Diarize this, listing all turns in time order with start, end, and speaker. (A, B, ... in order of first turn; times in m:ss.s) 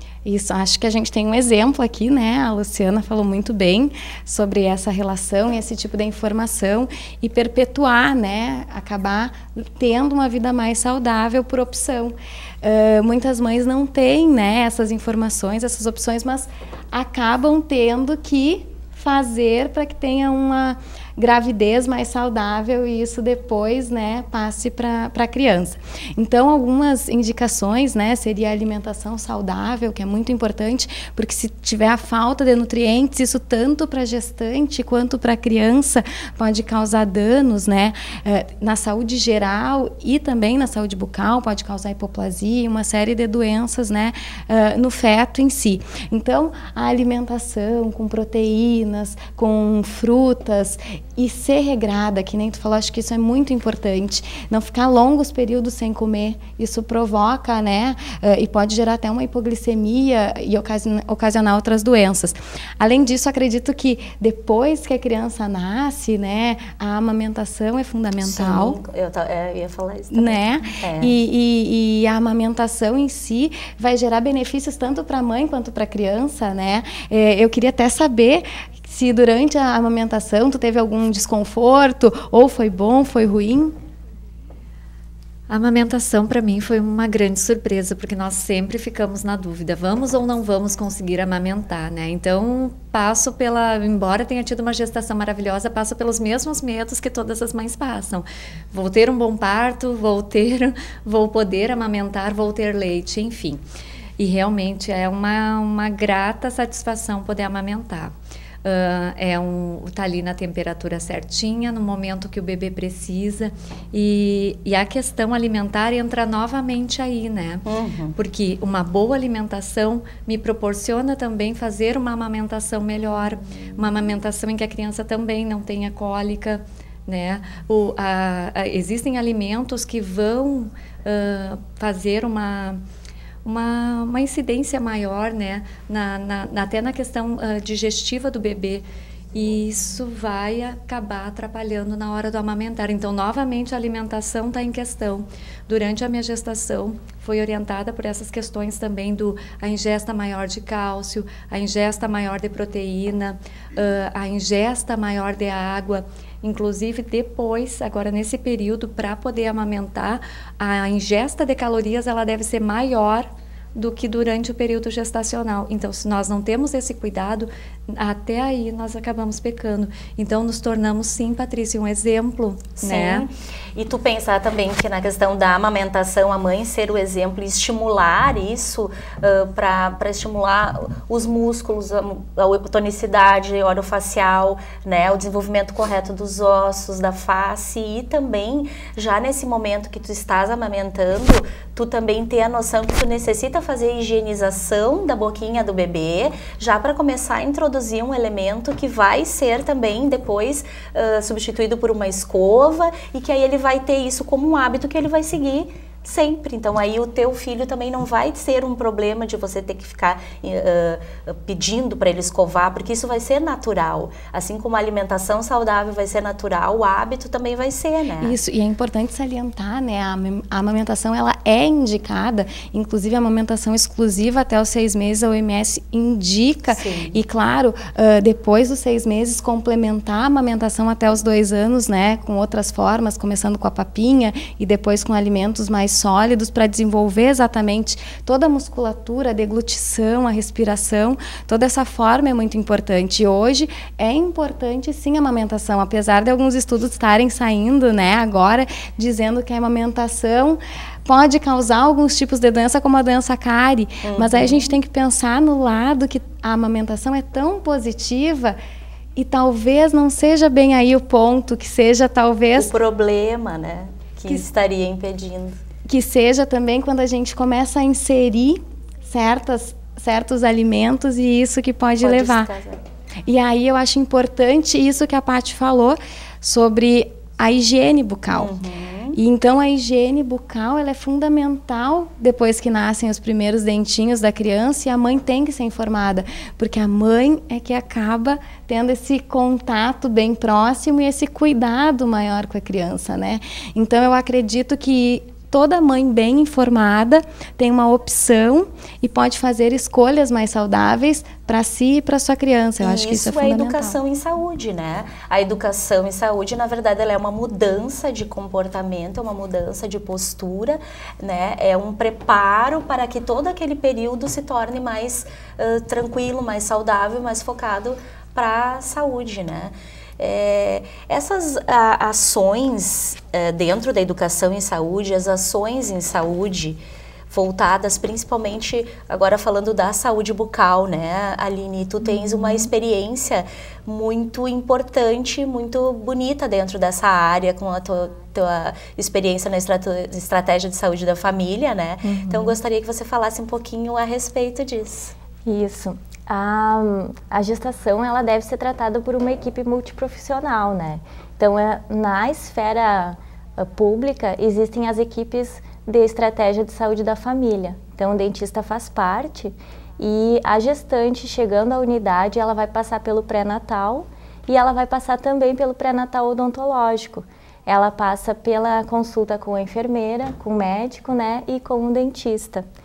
0:00.2-1:08.8 A
1:08.2-1:11.1 B
1:10.1-1:23.8 A
1:25.5-1:43.6 C
1:44.2-2:12.8 C
1:57.6-1:58.1 B
2:13.4-2:53.2 C
2:52.8-3:38.4 B
3:38.2-4:18.6 A
3:46.7-3:47.2 B
4:14.0-4:14.8 B
4:19.2-4:22.7 A
4:22.6-4:25.6 B
4:25.8-4:32.5 A
4:32.0-4:32.8 B
4:33.2-4:38.5 A
4:38.3-4:39.2 B
4:39.1-5:04.0 A
5:02.8-5:45.1 B
5:32.1-5:32.7 D
5:42.0-5:42.6 D
5:45.4-6:12.6 D